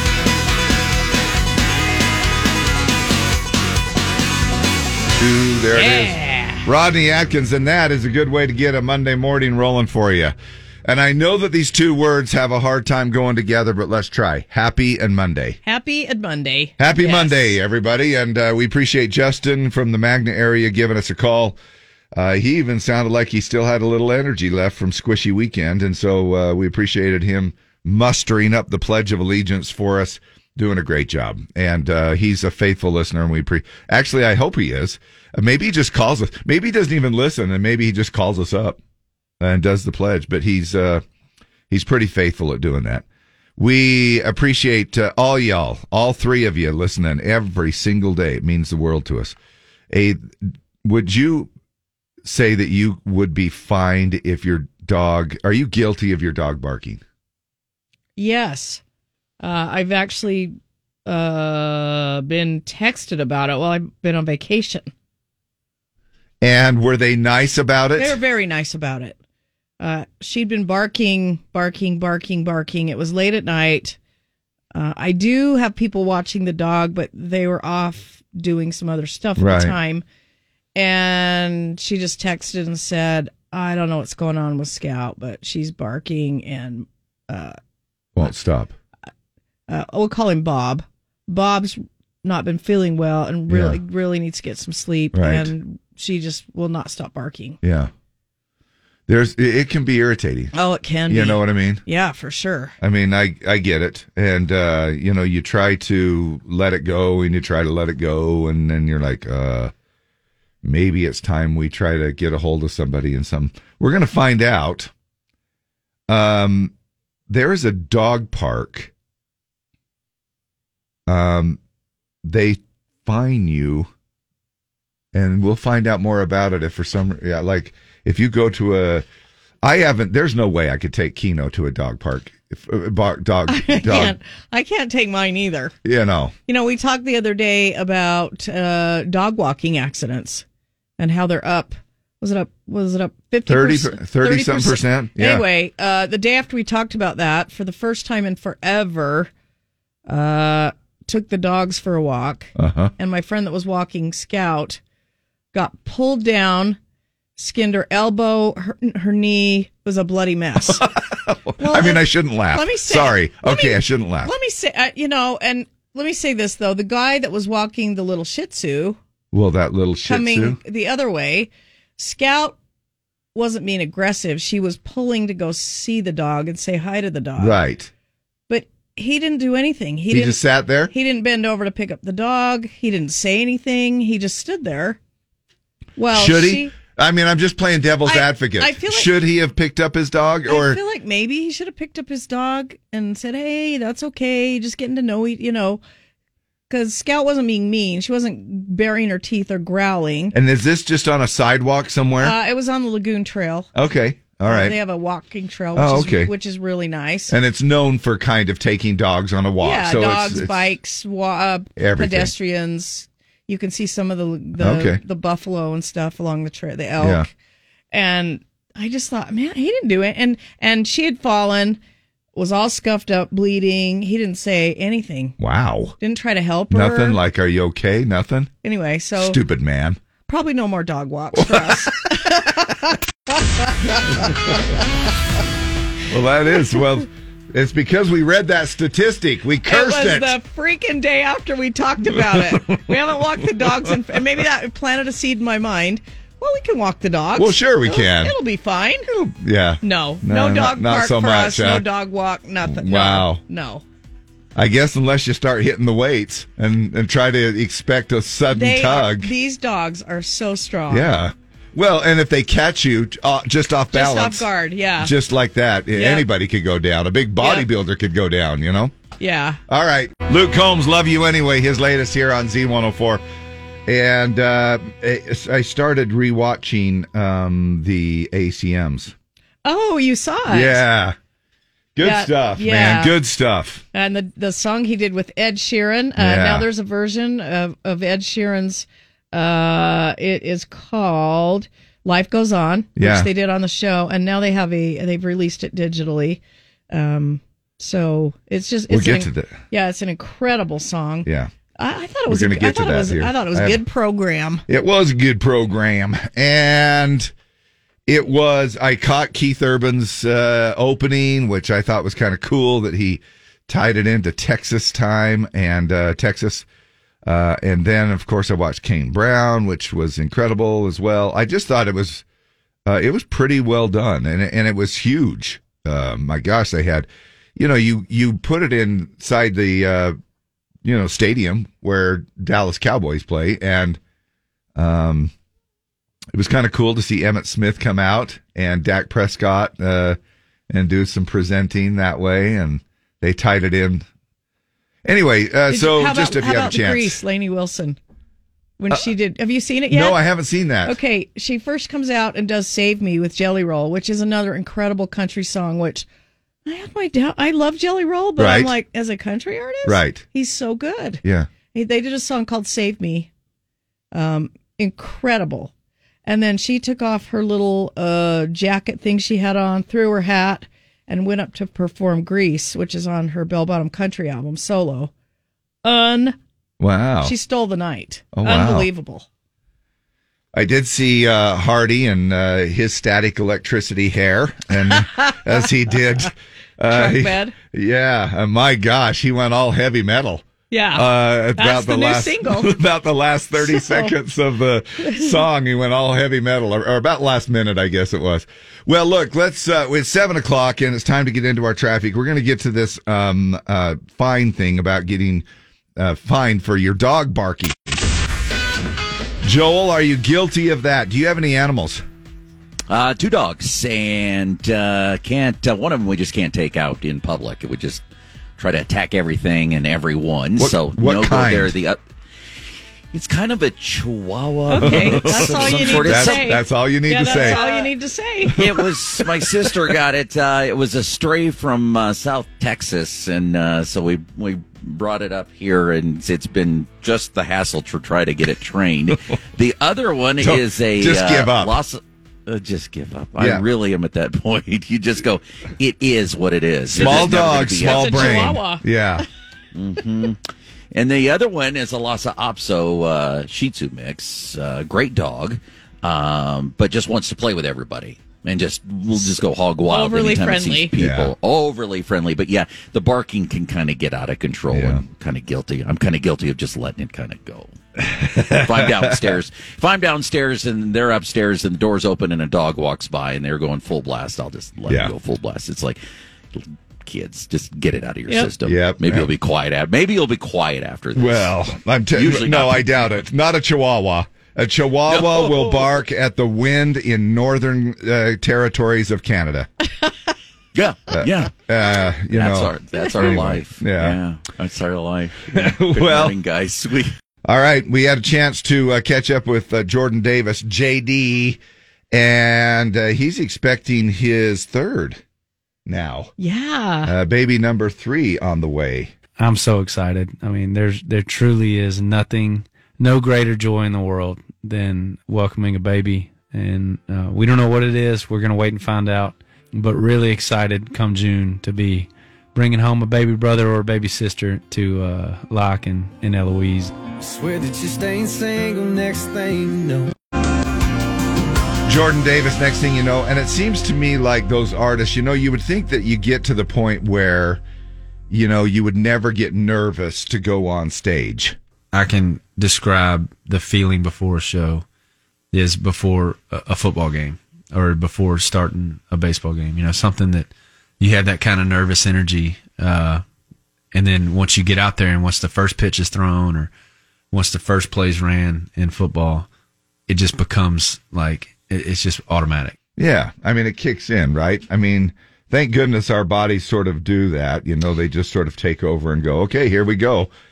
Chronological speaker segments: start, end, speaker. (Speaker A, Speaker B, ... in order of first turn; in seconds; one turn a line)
Speaker A: 5.2-10.3
Speaker B: 5.7-6.6
Speaker A: 10.8-15.6
Speaker B: 15.6-17.6
Speaker A: 16.8-21.6
Speaker A: 22.1-38.8
Speaker A: 39.4-41.0
Speaker A: 41.7-43.0
Speaker A: 43.6-49.4
Speaker A: 49.9-51.5
Speaker A: 52.2-57.0
Speaker B: 58.2-58.8
Speaker B: 59.4-60.5
Speaker B: 61.0-64.9
Speaker A: 66.4-68.2
Speaker B: 68.0-69.2
Speaker B: 69.8-74.0
Speaker B: 74.7-80.0
Speaker A: 79.4-79.8
Speaker B: 80.7-87.5
Speaker A: 88.2-88.7
Speaker B: 89.7-97.6
Speaker A: 93.5-93.8
Speaker A: 95.1-95.5
Speaker A: 97.6-97.9
Speaker A: 99.1-100.5
Speaker B: 100.5-102.7
Speaker A: 101.1-101.8
Speaker A: 102.8-109.7
Speaker A: 110.6-114.9
Speaker A: 116.1-116.7
Speaker A: 117.3-118.9
Speaker A: 121.1-121.6
Speaker A: 122.2-123.9
Speaker A: 125.1-129.0
Speaker A: 129.6-134.2
Speaker B: 133.5-135.7
Speaker A: 135.8-136.3
Speaker B: 136.5-140.4
Speaker B: 141.0-149.3
Speaker A: 143.5-145.4
Speaker B: 150.1-154.8
Speaker A: 152.6-152.9
Speaker B: 155.5-156.8
Speaker B: 157.4-160.8
Speaker A: 160.7-164.3
Speaker B: 161.6-169.0
Speaker A: 169.3-170.6
Speaker B: 170.0-172.6
Speaker B: 173.3-177.6
Speaker A: 177.4-177.9
Speaker B: 178.5-185.0
Speaker A: 180.1-180.9
Speaker B: 186.0-186.7
Speaker A: 186.1-190.8
Speaker B: 188.1-189.2
Speaker B: 190.5-195.8
Speaker B: 196.7-200.3
Speaker A: 200.3-202.3
Speaker B: 202.2-203.7
Speaker A: 203.7-204.8
Speaker B: 204.4-207.3
Speaker A: 205.7-206.3
Speaker A: 207.3-210.7
Speaker B: 209.6-217.3
Speaker A: 211.8-212.3
Speaker A: 214.6-215.0
Speaker A: 217.0-217.3
Speaker B: 217.9-221.8
Speaker B: 222.3-225.3
Speaker A: 225.4-225.9
Speaker B: 226.0-227.2
Speaker A: 226.7-228.5
Speaker B: 228.6-229.4
Speaker A: 229.2-230.0
Speaker B: 230.3-234.6
Speaker A: 231.4-231.9
Speaker A: 234.1-234.6
Speaker A: 236.1-240.3
Speaker B: 239.7-249.1
Speaker A: 242.1-242.8
Speaker A: 247.3-248.3
Speaker A: 249.1-251.8
Speaker B: 249.8-253.8
Speaker A: 252.7-253.4
Speaker A: 254.5-259.3
Speaker B: 258.5-261.1
Speaker A: 260.9-264.5
Speaker B: 263.9-265.1
Speaker A: 265.0-268.9
Speaker B: 265.9-266.2
Speaker B: 267.4-267.7
Speaker B: 269.2-269.6
Speaker A: 269.7-273.2
Speaker A: 273.9-279.1
Speaker B: 279.6-280.8
Speaker A: 280.5-281.1
Speaker A: 281.9-283.8
Speaker B: 282.0-283.2
Speaker B: 283.9-304.6
Speaker A: 286.2-286.7
Speaker A: 292.9-293.3
Speaker A: 298.9-299.6
Speaker A: 301.2-301.5
Speaker A: 302.3-303.8
Speaker A: 304.7-307.3
Speaker A: 308.1-316.6
Speaker A: 317.2-322.2
Speaker A: 322.9-330.1
Speaker A: 330.8-334.0
Speaker A: 334.7-335.3
Speaker A: 336.3-340.2
Speaker A: 340.7-344.1
Speaker A: 345.0-347.2
Speaker B: 345.7-348.0
Speaker B: 348.8-350.2
Speaker A: 349.9-351.0
Speaker B: 350.8-356.1
Speaker B: 356.6-361.2
Speaker A: 358.4-358.7
Speaker A: 359.9-360.2
Speaker A: 361.2-361.5
Speaker B: 361.7-363.3
Speaker B: 364.1-365.7
Speaker B: 366.2-375.1
Speaker B: 375.8-376.4
Speaker A: 376.8-377.3
Speaker B: 377.2-379.3
Speaker A: 378.3-378.9
Speaker A: 380.5-405.4
Speaker B: 384.9-385.4
Speaker B: 386.9-387.5
Speaker B: 390.7-392.8
Speaker B: 393.6-394.1
Speaker B: 395.0-395.3
Speaker A: 406.0-408.0
Speaker A: 409.4-412.0
Speaker C: 412.9-418.0
Speaker C: 418.6-422.0
Speaker A: 420.6-421.7
Speaker C: 423.1-426.6
Speaker B: 424.7-428.6
Speaker A: 424.8-427.6
Speaker A: 428.5-429.8
Speaker C: 428.5-448.5
Speaker A: 440.4-441.8
Speaker A: 443.4-443.6
Speaker A: 446.9-449.2
Speaker B: 447.0-448.8
Speaker C: 449.7-450.4
Speaker C: 450.9-467.7
Speaker B: 459.9-460.9
Speaker A: 461.0-461.3
Speaker A: 464.7-465.0
Speaker A: 468.0-469.4
Speaker C: 468.4-476.0
Speaker C: 476.5-481.6
Speaker A: 478.6-479.3
Speaker A: 481.1-489.7
Speaker C: 482.1-483.2
Speaker C: 485.1-485.9
Speaker C: 490.7-491.6
Speaker A: 491.1-494.2
Speaker C: 492.3-497.1
Speaker A: 495.5-496.3
Speaker A: 497.4-501.6
Speaker A: 502.1-505.2
Speaker A: 505.9-506.3
Speaker B: 506.4-507.1
Speaker A: 507.0-509.1
Speaker D: 509.4-526.9
Speaker E: 527.2-530.1
Speaker A: 531.9-537.6
Speaker A: 538.3-541.6
Speaker D: 541.9-544.8
Speaker D: 545.5-553.2
Speaker D: 553.9-556.7
Speaker D: 557.3-559.5
Speaker D: 560.1-562.8
Speaker A: 563.0-570.3